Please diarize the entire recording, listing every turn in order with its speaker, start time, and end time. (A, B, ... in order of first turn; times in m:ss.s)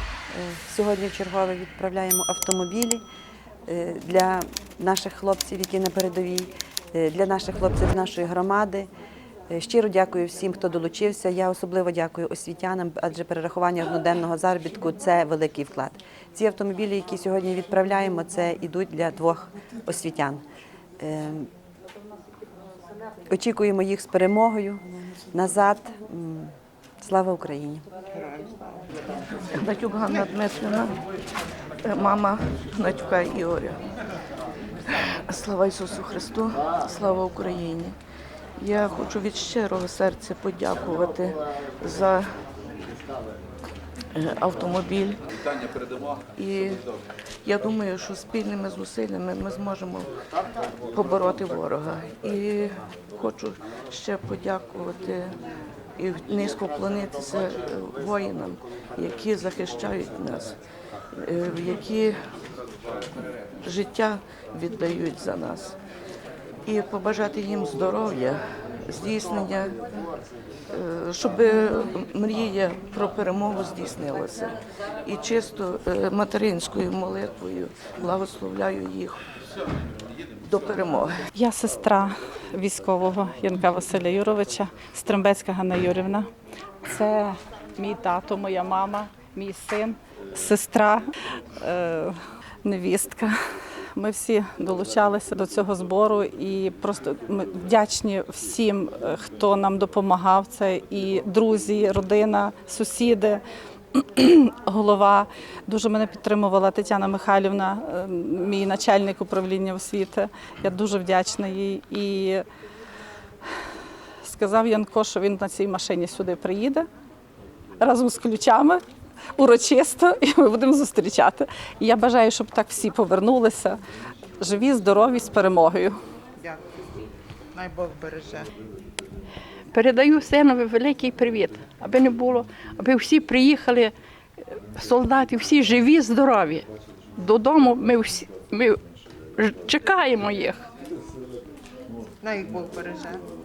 0:00.3-0:03.0 A
0:03.6-0:08.9 A
0:09.5-0:20.4 A
0:21.0-0:21.5 A
0:23.3-0:24.8 A
0:25.3-0:27.8 A
0:28.1-0:28.9 B
0:29.5-0:31.0 C
0:31.8-0:33.8 C
0:34.9-0:38.0 C
0:38.6-0:42.4 C
0:44.1-0:45.2 C
0:46.4-0:46.8 C
0:47.4-0:50.2 C
0:50.8-0:55.4 C
0:56.0-1:00.6 C
1:01.1-1:02.2 C
1:03.6-1:05.8 C
1:06.6-1:09.8 C
1:10.7-1:19.2 C
1:20.4-1:21.2 C
1:21.3-1:26.3 D
1:26.8-1:33.4 D
1:33.9-1:43.4 D
1:43.9-1:52.4 D
1:54.2-1:56.9 D
1:57.8-1:58.8 D
1:59.4-2:03.8 D
2:04.4-2:06.0 D
2:07.5-2:08.5 B
2:09.7-2:13.9 E
2:14.7-2:18.8 E
2:19.4-2:20.6 E
2:22.2-2:23.2 B